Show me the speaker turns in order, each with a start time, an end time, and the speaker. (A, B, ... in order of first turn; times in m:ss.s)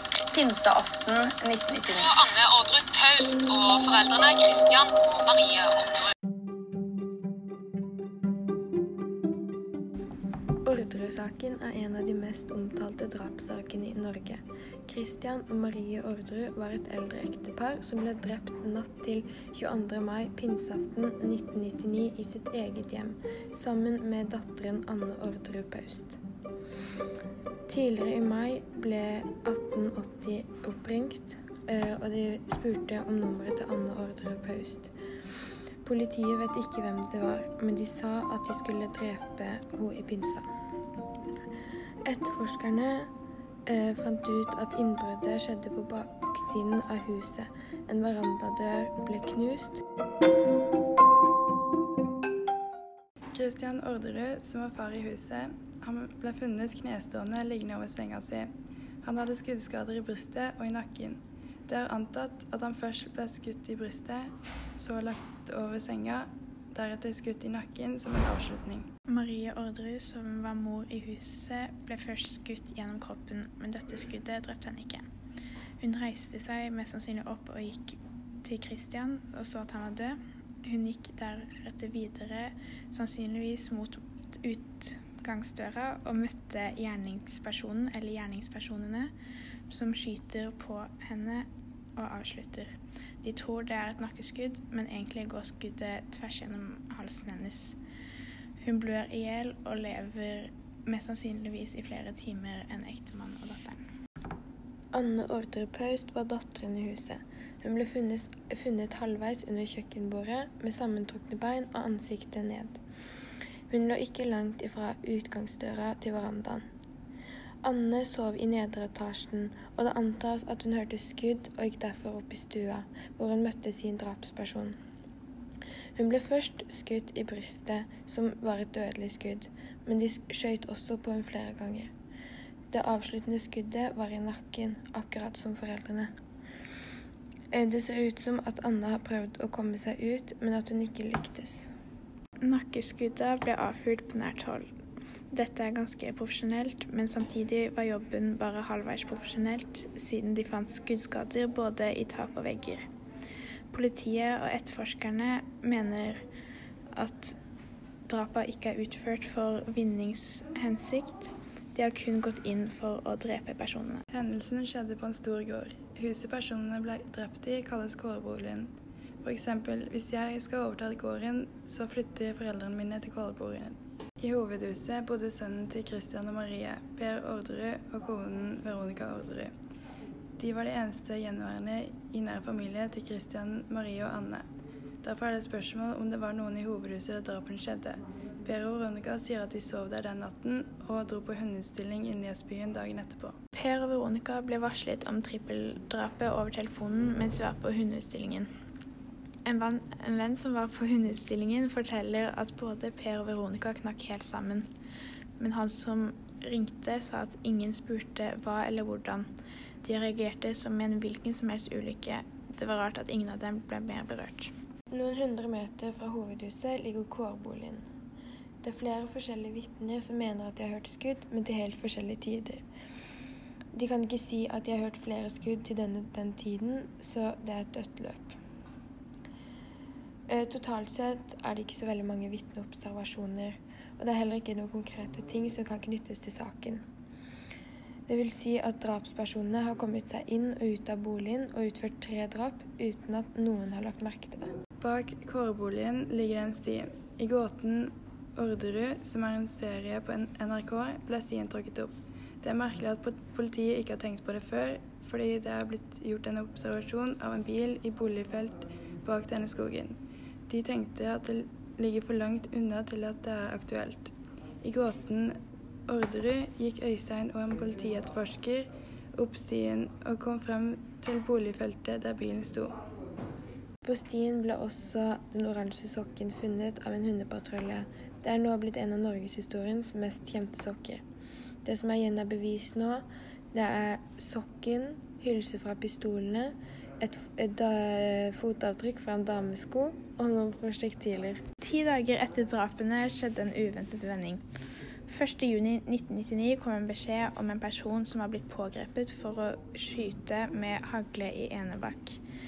0:00.3-0:02.3 A
0:01.7-0:06.0 B
0:10.6-0:26.2 C
0:27.7-0:34.9 C
0:35.8-0:40.5 C
0:42.0-0:43.1 C
0:43.6-0:49.8 C
0:53.3-1:08.9 D
1:09.1-1:15.0 E
1:15.8-1:29.1 E
1:29.7-1:37.8 E
1:38.6-1:43.8 E
1:44.9-1:52.8 C
1:53.7-1:56.6 C
1:57.6-2:04.8 C
2:06.0-2:11.9 C
2:12.7-2:16.1 C
2:17.5-2:21.7 C
2:22.4-2:24.7 E
2:25.3-2:32.8 E
2:33.7-2:36.2 E
2:36.9-2:37.4 E
2:38.1-2:44.0 E
2:44.1-2:48.7 D
2:49.2-2:59.5 D
3:00.4-3:04.4 D
3:05.0-3:13.4 D
3:13.5-3:18.5 E
3:19.4-3:24.7 E
3:25.4-3:29.2 E
3:29.8-3:34.5 E
3:34.9-3:37.8 C
3:38.6-3:42.6 C
3:43.7-3:48.4 C
3:50.3-3:56.8 C
3:58.1-4:04.5 C
4:04.8-4:20.0 D
4:20.5-4:32.8 D
4:33.8-4:41.0 C
4:41.6-4:51.4 C
4:51.6-4:54.4 E
4:55.1-5:02.2 E